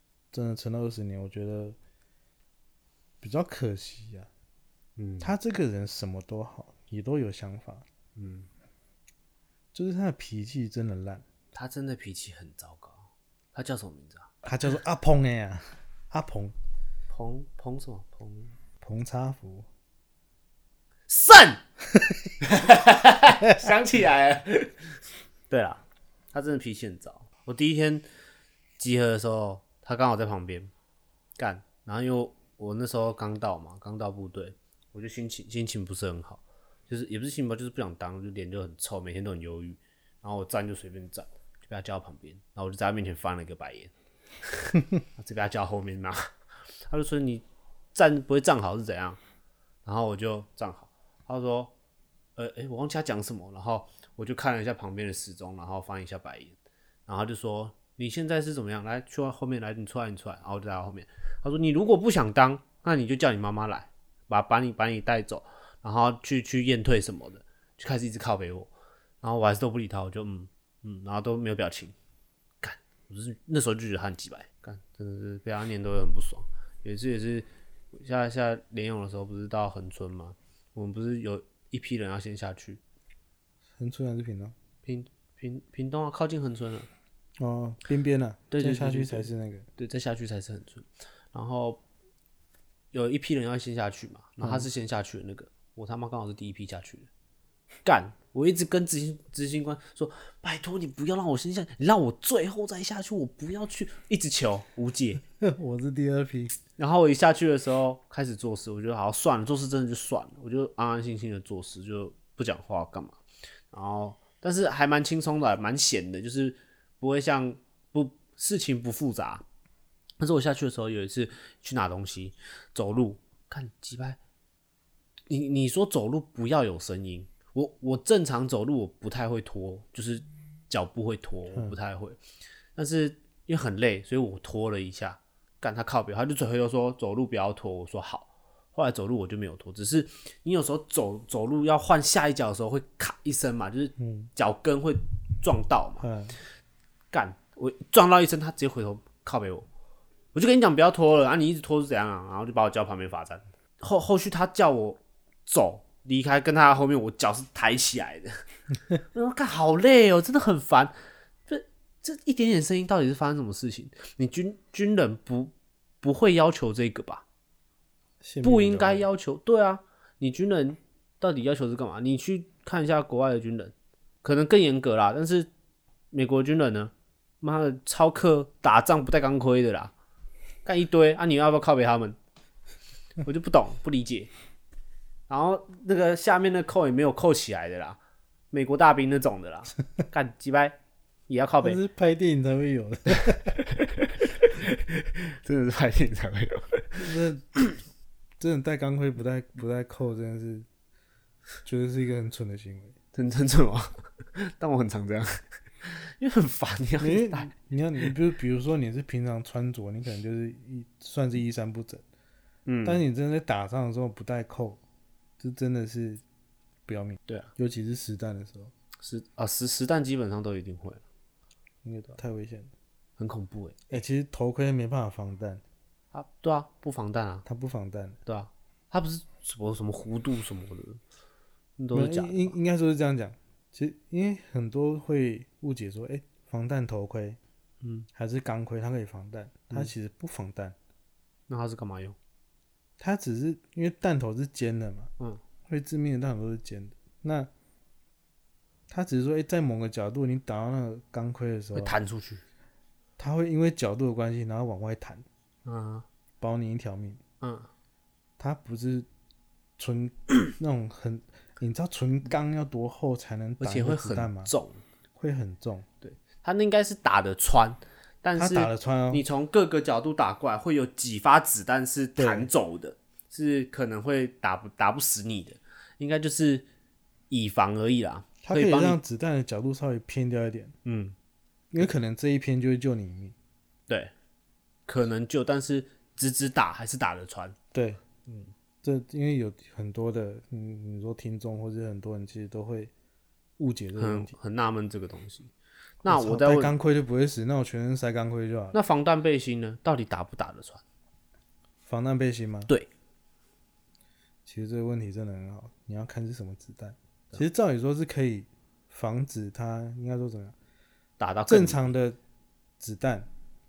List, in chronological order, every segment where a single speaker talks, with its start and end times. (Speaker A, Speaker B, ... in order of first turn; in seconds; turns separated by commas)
Speaker A: 0.3-1.8, Speaker A: 3.2-4.3, Speaker B: 5.0-5.3, Speaker A: 5.2-7.8, Speaker B: 8.2-8.5, Speaker A: 9.7-11.2, Speaker B: 11.5-14.3, Speaker A: 14.4-16.5, Speaker B: 17.1-18.5, Speaker A: 18.8-19.7, Speaker B: 21.1-21.6, Speaker B: 22.4-24.9, Speaker B: 25.5-28.1, Speaker B: 28.8-30.7, Speaker B: 31.4-43.9, Speaker B: 44.4-46.2, Speaker B: 46.9-49.2, Speaker B: 49.8-51.7, Speaker B: 52.4-68.7, Speaker B: 69.2-71.9, Speaker B: 72.6-82.8, Speaker A: 83.8-84.5, Speaker B: 84.8-86.9, Speaker A: 87.4-89.7, Speaker B: 88.5-91.8, Speaker B: 92.9-97.1, Speaker A: 94.4-94.7, Speaker B: 97.8-105.2, Speaker A: 105.4-106.5, Speaker B: 106.8-113.2, Speaker B: 113.7-119.4, Speaker B: 120.2-124.2, Speaker B: 125.3-132.2, Speaker B: 132.7-146.1, Speaker A: 144.0-144.3, Speaker A: 146.0-146.4, Speaker B: 147.1-149.7, Speaker B: 150.3-158.3, Speaker B: 159.1-160.9, Speaker B: 161.5-167.2, Speaker A: 168.2-169.1, Speaker B: 168.4-175.5, Speaker B: 176.1-179.9, Speaker B: 180.6-182.2, Speaker B: 183.2-184.3, Speaker B: 185.3-188.0, Speaker B: 188.5-190.8, Speaker B: 191.3-191.8, Speaker A: 191.6-193.5, Speaker B: 193.3-197.6, Speaker A: 196.9-197.4, Speaker A: 198.4-200.7, Speaker A: 201.6-202.9, Speaker B: 203.1-208.1, Speaker A: 207.0-212.0, Speaker B: 212.7-213.0, Speaker A: 212.8-214.8, Speaker A: 215.4-216.2, Speaker A: 216.8-218.7, Speaker B: 219.0-221.0, Speaker A: 221.8-222.7, Speaker B: 223.2-223.9, Speaker A: 223.9-225.6, Speaker B: 226.1-227.4, Speaker A: 227.4-228.2, Speaker B: 228.2-231.0, Speaker B: 231.8-232.6, Speaker A: 231.9-237.4, Speaker B: 237.8-238.1, Speaker A: 238.1-240.8, Speaker B: 241.5-242.2, Speaker A: 243.0-245.1, Speaker A: 245.7-247.5, Speaker A: 248.9-251.9, Speaker B: 251.7-252.4, Speaker A: 253.2-255.2, Speaker B: 255.6-256.1, Speaker A: 256.4-257.2, Speaker B: 257.4-257.7, Speaker A: 258.4-259.1, Speaker A: 259.8-264.5, Speaker B: 263.6-264.8, Speaker A: 265.1-265.9, Speaker B: 266.0-276.6, Speaker A: 268.3-269.2, Speaker A: 272.2-272.5, Speaker B: 277.3-279.0, Speaker A: 278.4-280.7, Speaker B: 280.8-281.1, Speaker A: 281.7-283.3, Speaker B: 284.9-287.5, Speaker A: 287.7-288.0, Speaker A: 288.8-292.9, Speaker A: 293.6-294.3, Speaker B: 293.9-295.5, Speaker B: 296.0-296.8, Speaker A: 296.1-298.8, Speaker B: 298.7-300.8, Speaker A: 301.8-302.7, Speaker A: 304.4-310.5, Speaker B: 311.2-311.8, Speaker A: 311.5-312.2, Speaker A: 312.8-313.3